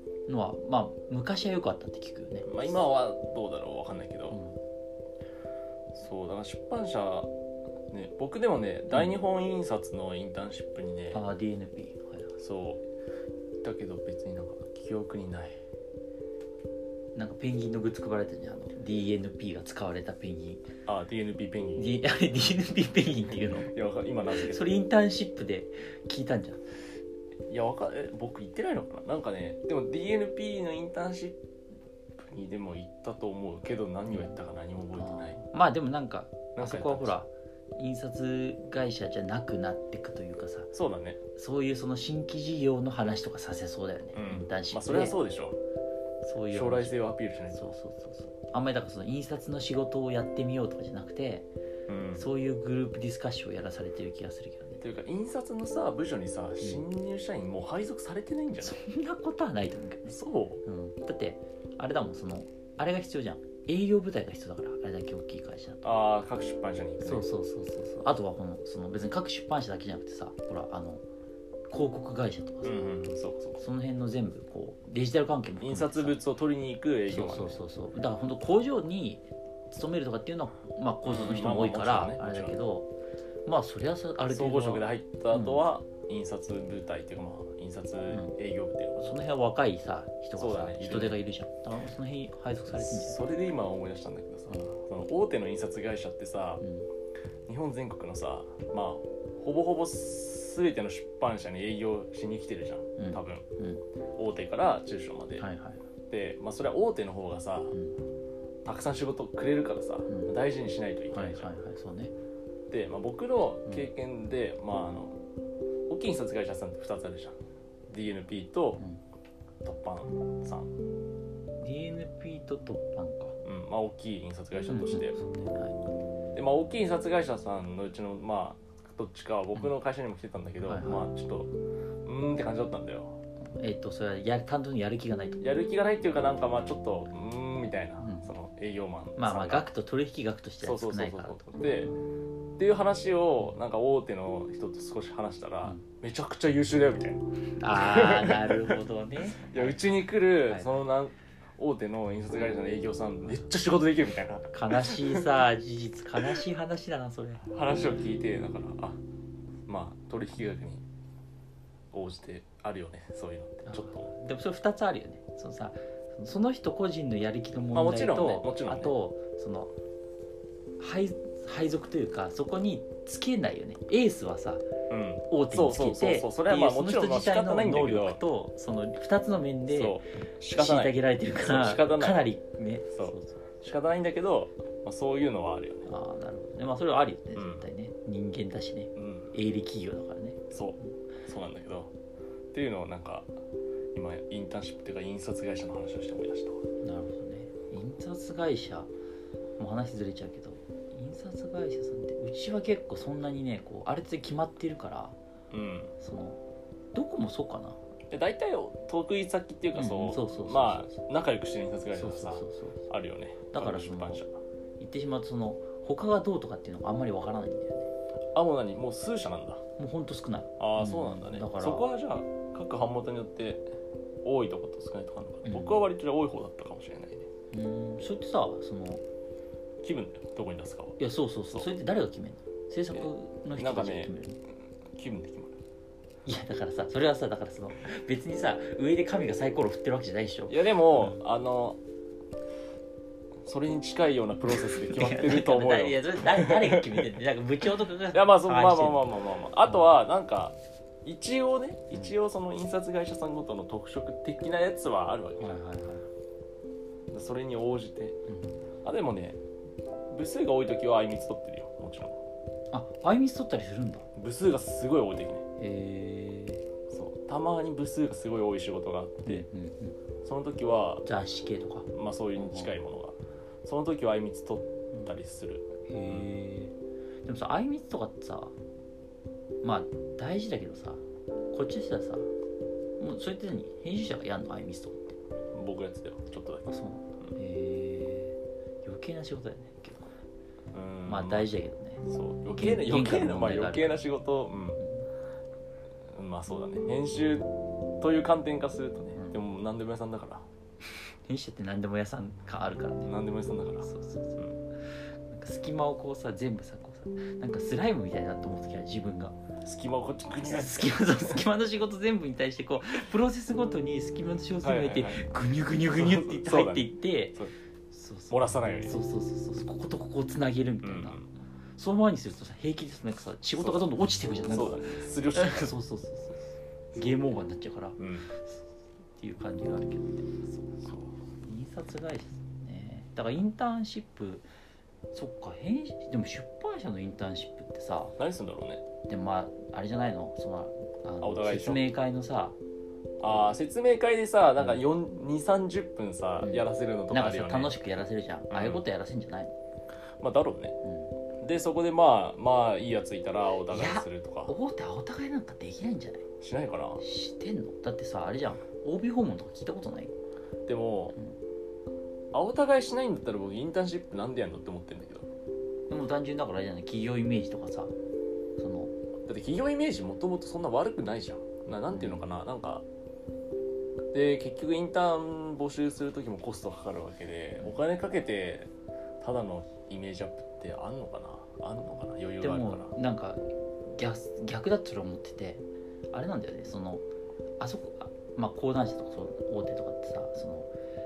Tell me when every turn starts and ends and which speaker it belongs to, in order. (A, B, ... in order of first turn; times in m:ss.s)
0:00.3-0:02.7 A
0:02.5-0:04.4 B
0:04.3-0:04.6 A
0:05.9-0:07.3 B
0:07.9-0:11.2 B
0:08.9-0:09.2 A
0:11.1-0:12.3 A
0:12.4-0:12.8 B
0:13.6-0:15.6 B
0:17.2-0:20.7 A
0:20.9-0:22.0 B
0:21.8-0:23.7 A
0:23.3-0:24.7 B
0:24.3-0:26.6 A
0:27.5-0:31.4 B
0:32.2-0:35.4 B
0:34.1-0:34.4 A
0:35.0-0:40.7 A
0:36.6-0:37.2 B
0:40.7-0:41.2 B
0:41.4-0:45.2 A
0:44.2-0:45.6 B
0:46.2-0:51.5 A
0:46.5-0:47.7 B
0:51.9-0:52.3 B
0:52.1-0:54.8 A
0:54.8-0:58.8 B
0:58.6-1:05.8 A
1:00.1-1:00.6 B
1:05.8-1:07.3 B
1:07.0-1:11.0 A
1:11.7-1:12.8 A
1:12.6-1:13.6 B
1:13.6-1:16.2 A
1:15.6-1:17.6 B
1:17.1-1:22.9 A
1:21.0-1:22.6 B
1:23.5-1:25.6 A
1:24.3-1:29.2 B
1:29.0-1:33.2 A
1:30.4-1:31.2 B
1:32.7-1:36.6 B
1:36.6-1:36.9 A
1:37.5-1:43.4 B
1:43.0-1:43.8 A
1:44.2-1:45.5 B
1:45.4-1:45.8 A
1:46.1-1:47.7 B
1:47.7-1:48.0 A
1:48.6-1:51.5 B
1:50.1-1:50.3 A
1:51.1-1:52.1 A
1:52.7-1:55.2 B
1:55.9-1:58.8 B
1:59.6-2:00.7 B
2:01.6-2:03.4 A
2:03.4-2:05.2 B
2:04.6-2:05.8 A
2:06.4-2:11.5 B
2:10.6-2:11.1 A
2:12.0-2:13.2 B
2:13.4-2:15.4 A
2:15.4-2:19.7 B
2:18.0-2:18.3 A
2:19.2-2:22.0 A
2:20.6-2:21.9 B
2:22.6-2:28.8 B
2:27.6-2:30.7 A
2:29.4-2:35.3 B
2:34.5-2:37.4 A
2:37.5-2:39.0 B
2:39.7-2:40.8 B
2:41.9-2:44.1 B
2:43.7-2:49.7 A
2:47.7-2:48.9 B
2:50.8-2:54.6 A
2:54.9-2:58.2 B
2:55.3-3:00.0 A
2:59.7-3:02.3 B
3:00.5-3:03.4 A
3:02.9-3:05.9 B
3:05.9-3:10.5 A
3:07.4-3:07.7 B
3:09.0-3:09.3 B
3:10.5-3:11.9 B
3:12.5-3:13.3 B
3:13.9-3:16.6 B
3:16.8-3:18.9 A
3:19.6-3:25.2 A
3:25.5-3:25.9 B
3:26.0-3:26.4 A
3:26.9-3:27.8 A
3:28.1-3:34.4 B
3:29.8-3:31.0 A
3:31.9-3:32.8 A
3:33.5-3:34.2 A
3:34.8-3:37.9 A
3:38.4-3:39.6 B
3:39.8-3:41.9 A
3:40.6-3:43.6 B
3:44.2-3:47.3 B
3:45.4-3:45.8 A
3:47.5-3:49.0 A
3:49.8-3:51.0 B
3:51.0-3:54.4 A
3:52.9-3:54.1 B
3:55.0-3:55.6 B
3:56.3-4:01.2 A
4:00.5-4:01.8 B
4:03.4-4:07.1 B
4:04.5-4:09.8 A
4:08.1-4:15.6 B
4:15.4-4:16.1 A
4:17.1-4:18.2 B
4:18.3-4:18.6 A
4:18.8-4:19.4 B
4:20.1-4:22.2 B
4:22.7-4:24.1 A
4:24.2-4:25.4 B
4:25.6-4:26.6 A
4:26.9-4:29.5 B
4:29.2-4:30.0 A
4:30.2-4:31.1 B
4:31.1-4:32.7 A
4:31.9-4:36.2 B
4:35.9-4:36.7 A
4:37.2-4:38.6 A
4:39.6-4:42.3 A
4:43.0-4:45.2 A
4:45.5-4:46.7 B
4:46.7-4:50.1 A
4:50.7-4:51.5 B
4:51.1-4:54.1 A
4:52.1-4:54.8 B
4:54.8-4:55.1 A
4:56.1-4:57.5 B
4:58.0-5:00.5 B
4:59.2-4:59.4 A
5:01.2-5:03.1 A
5:03.0-5:04.6 B
5:03.8-5:09.4 A
5:09.6-5:11.4 B
5:10.4-5:17.4 A
5:14.6-5:15.2 B
5:15.8-5:17.5 B
5:17.9-5:21.2 A
5:18.3-5:19.0 B
5:20.8-5:21.3 B
5:21.8-5:28.6 A
5:23.6-5:23.8 B
5:24.5-5:25.8 B
5:28.0-5:28.3 B
5:29.2-5:30.4 A
5:30.6-5:31.1 B
5:31.4-5:34.5 A
5:35.1-5:38.2 A
5:38.2-5:38.8 B
5:39.1-5:42.6 A
5:41.2-5:41.8 B
5:43.2-5:47.8 B
5:44.6-5:44.8 A
5:46.4-5:49.5 A
5:48.5-5:48.8 B
5:50.2-5:50.8 B
5:50.8-5:51.1 A
5:51.4-5:54.5 B
5:53.7-5:56.2 A
5:56.4-5:57.0 B
5:57.0-6:00.1 A
6:00.7-6:01.2 B
6:02.3-6:05.3 B
6:05.9-6:07.9 A
6:08.6-6:08.9 A
6:09.3-6:12.8 B
6:11.9-6:12.2 A
6:14.1-6:18.7 B
6:19.2-6:22.9 B
6:22.4-6:27.0 A
6:27.6-6:30.7 A